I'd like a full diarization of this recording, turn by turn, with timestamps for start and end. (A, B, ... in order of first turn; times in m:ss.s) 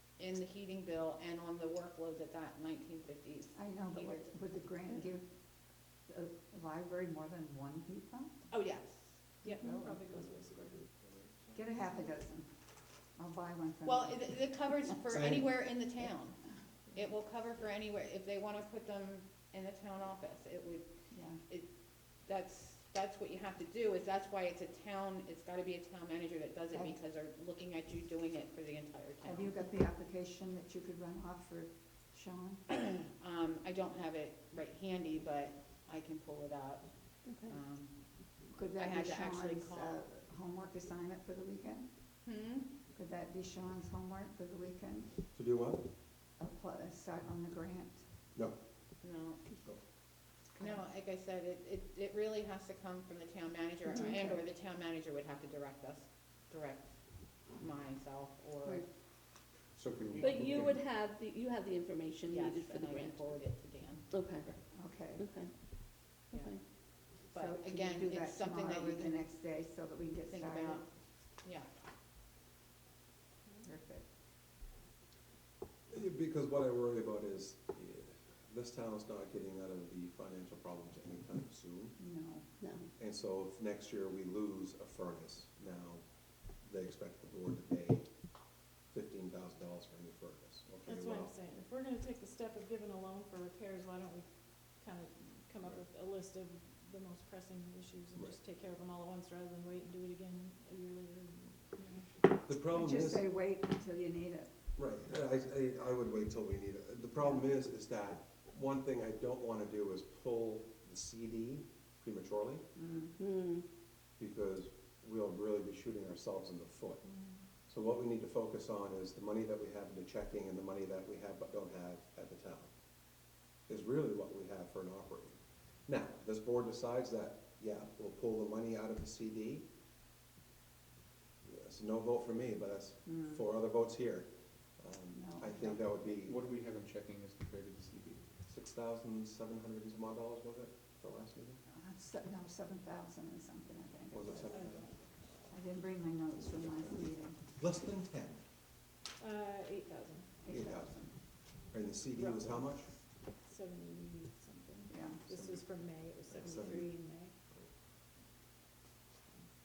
0:00.2-0:04.3 A
0:03.6-0:05.3 B
0:06.1-0:08.5 B
0:08.5-0:09.2 A
0:09.4-0:11.4 C
0:09.5-0:10.0 B
0:11.6-0:12.5 B
0:13.2-0:14.4 B
0:13.8-0:16.4 A
0:15.1-0:15.5 D
0:16.9-0:20.9 A
0:21.1-0:21.4 B
0:22.2-0:29.5 A
0:29.2-0:32.7 B
0:32.7-0:36.9 A
0:37.3-0:37.6 E
0:37.4-0:38.1 A
0:38.5-0:41.9 B
0:38.8-0:40.0 A
0:42.2-0:42.7 A
0:42.9-0:45.1 B
0:45.3-0:45.9 D
0:46.4-0:48.0 B
0:49.0-0:49.4 A
0:50.6-0:50.8 B
0:50.6-0:58.8 A
0:54.0-0:54.4 B
0:59.8-1:00.8 F
1:00.1-1:00.8 A
1:00.2-1:03.4 E
1:02.3-1:04.1 A
1:04.1-1:04.5 E
1:04.7-1:05.3 B
1:05.1-1:06.6 E
1:06.3-1:06.6 A
1:07.1-1:09.2 A
1:07.3-1:10.8 B
1:10.3-1:10.9 A
1:11.4-1:11.7 A
1:13.6-1:14.1 B
1:15.9-1:22.0 D
1:22.0-1:22.5 B
1:22.6-1:22.9 E
1:23.0-1:26.0 D
1:26.6-1:28.1 D
1:28.9-1:31.3 D
1:30.8-1:42.1 C
1:42.4-1:43.2 D
1:42.7-1:44.5 B
1:44.8-1:52.6 D
1:52.8-1:53.1 B
1:53.2-1:53.6 E
1:54.2-1:57.0 D
1:57.1-1:57.4 C
1:57.7-2:02.7 D
2:03.7-2:09.6 D
2:11.5-2:16.4 D
2:13.1-2:13.4 B
2:15.1-2:15.9 B
2:16.2-2:18.3 F
2:18.5-2:21.6 D
2:21.7-2:24.7 B
2:24.1-2:24.9 D
2:24.5-2:25.0 C
2:25.5-2:27.4 B
2:27.6-2:28.4 D
2:29.2-2:30.3 C
2:30.4-2:31.2 B
2:30.5-2:31.1 D
2:31.7-2:32.9 D
2:32.2-2:37.3 C
2:34.9-2:35.2 B
2:35.3-2:36.1 F
2:36.3-2:36.9 D